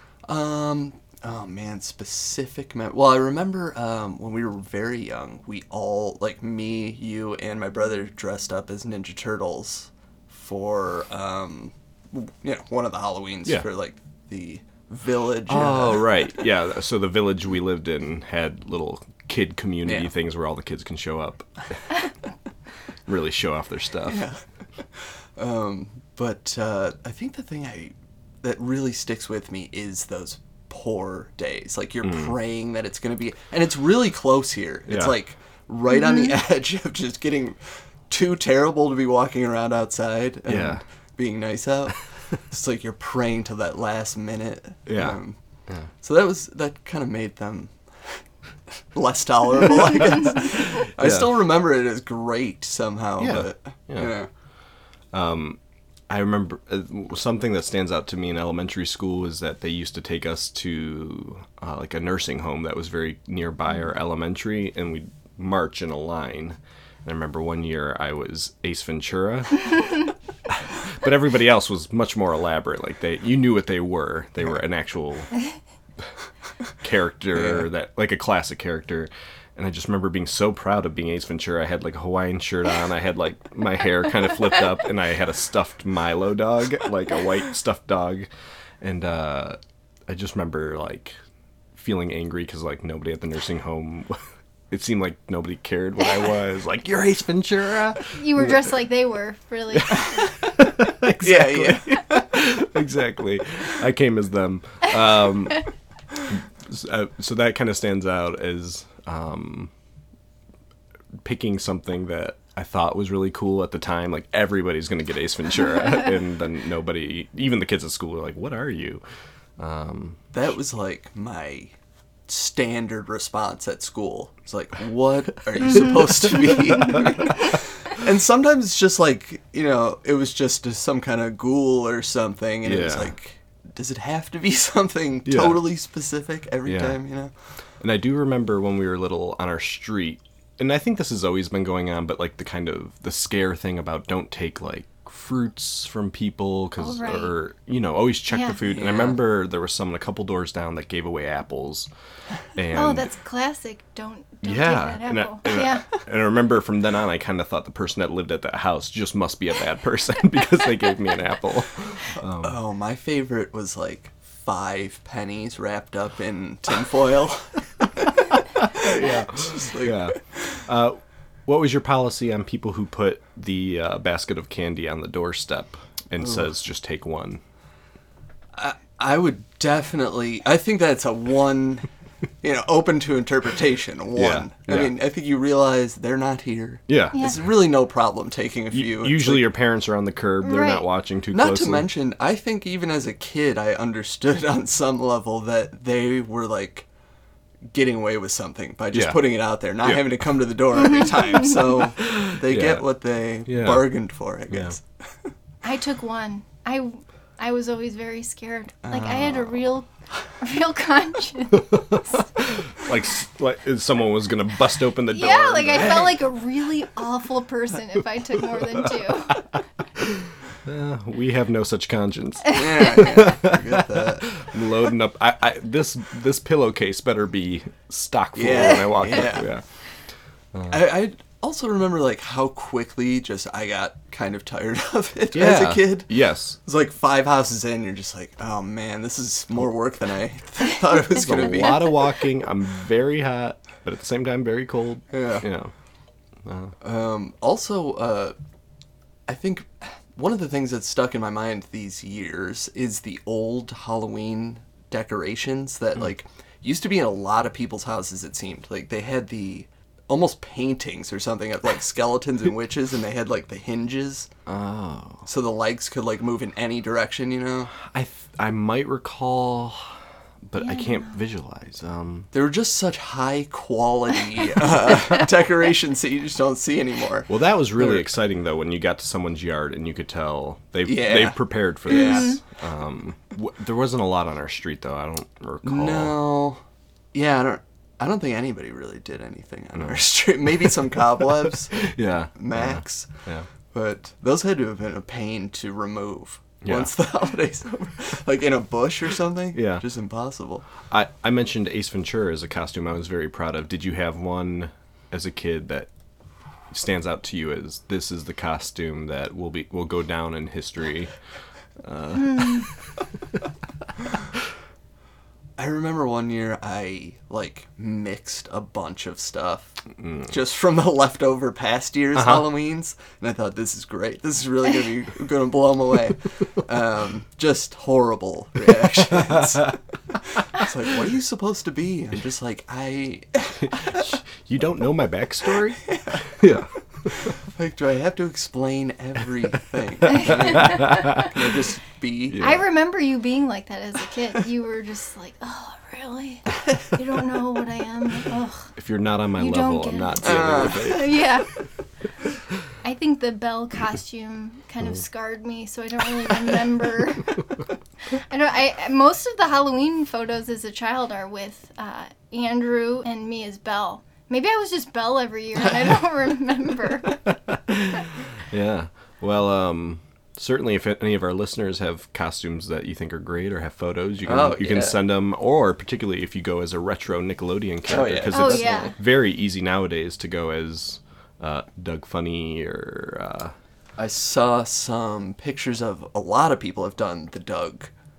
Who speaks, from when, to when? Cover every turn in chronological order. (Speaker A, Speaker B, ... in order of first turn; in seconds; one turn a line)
Speaker A: 0.3-16.4
Speaker B: 15.5-21.5
Speaker A: 19.9-20.1
Speaker B: 23.1-24.2
Speaker A: 24.1-24.4
Speaker A: 24.9-45.4
Speaker B: 32.0-32.3
Speaker B: 34.9-35.1
Speaker C: 36.0-36.3
Speaker B: 40.5-40.8
Speaker B: 44.9-45.9
Speaker A: 46.0-48.2
Speaker A: 48.9-54.3
Speaker B: 51.0-51.3
Speaker B: 53.2-54.1
Speaker B: 55.1-70.0
Speaker B: 70.8-75.3
Speaker B: 76.8-88.3
Speaker B: 88.8-91.2
Speaker B: 91.8-98.7
Speaker C: 98.2-100.2
Speaker B: 99.7-105.7
Speaker A: 101.2-102.2
Speaker B: 106.3-109.7
Speaker B: 111.2-119.0
Speaker B: 119.6-120.2
Speaker A: 120.3-121.7
Speaker A: 122.3-137.3
Speaker B: 125.8-127.3
Speaker B: 132.6-133.1
Speaker B: 135.2-135.6
Speaker B: 136.7-137.0
Speaker B: 137.8-151.9
Speaker C: 146.8-147.3
Speaker C: 148.3-148.6
Speaker A: 148.7-149.2
Speaker B: 152.6-153.1
Speaker C: 152.7-155.9
Speaker B: 154.4-162.6
Speaker A: 162.4-170.6
Speaker B: 168.6-177.4
Speaker A: 176.2-176.5
Speaker A: 178.6-181.9
Speaker A: 182.4-189.4
Speaker B: 184.2-184.9
Speaker B: 186.9-187.2
Speaker B: 188.7-191.9
Speaker C: 190.4-190.9
Speaker A: 191.3-196.9
Speaker A: 197.7-204.8
Speaker B: 198.9-199.2
Speaker B: 199.8-200.4
Speaker B: 202.0-202.8
Speaker B: 203.5-203.9
Speaker B: 204.5-204.8
Speaker C: 205.6-209.9
Speaker A: 208.8-209.5
Speaker C: 210.4-211.7
Speaker B: 211.5-216.2
Speaker C: 215.1-219.4
Speaker B: 220.0-229.6
Speaker A: 222.6-224.4
Speaker A: 228.3-229.5
Speaker B: 230.5-230.9
Speaker A: 230.7-242.0
Speaker B: 235.3-236.6
Speaker B: 241.0-245.7
Speaker A: 245.1-245.5
Speaker B: 246.4-246.8
Speaker A: 246.8-248.4
Speaker A: 249.3-264.3
Speaker B: 264.5-265.3
Speaker A: 265.3-267.7
Speaker B: 267.7-272.3
Speaker C: 270.6-271.1
Speaker A: 272.3-278.1
Speaker B: 277.3-286.2
Speaker A: 280.9-282.4
Speaker C: 281.9-282.4
Speaker A: 285.6-286.6
Speaker A: 287.1-293.1
Speaker B: 289.8-290.1
Speaker B: 291.8-293.5
Speaker A: 293.7-300.7
Speaker B: 296.6-296.9
Speaker B: 299.5-299.9
Speaker B: 300.9-305.9
Speaker B: 306.7-311.1
Speaker B: 311.8-312.8
Speaker A: 315.6-334.1
Speaker B: 320.0-320.3
Speaker B: 322.2-322.4
Speaker B: 333.6-337.3
Speaker A: 335.9-336.3
Speaker A: 337.1-342.5
Speaker B: 340.1-341.3
Speaker B: 342.3-342.6
Speaker C: 342.4-348.7
Speaker B: 348.8-351.2
Speaker C: 349.4-351.5
Speaker A: 350.2-351.0
Speaker C: 352.8-357.4
Speaker C: 358.2-367.2
Speaker B: 367.5-383.5
Speaker A: 374.2-375.0
Speaker A: 377.9-378.9
Speaker C: 378.3-378.9
Speaker A: 384.0-387.9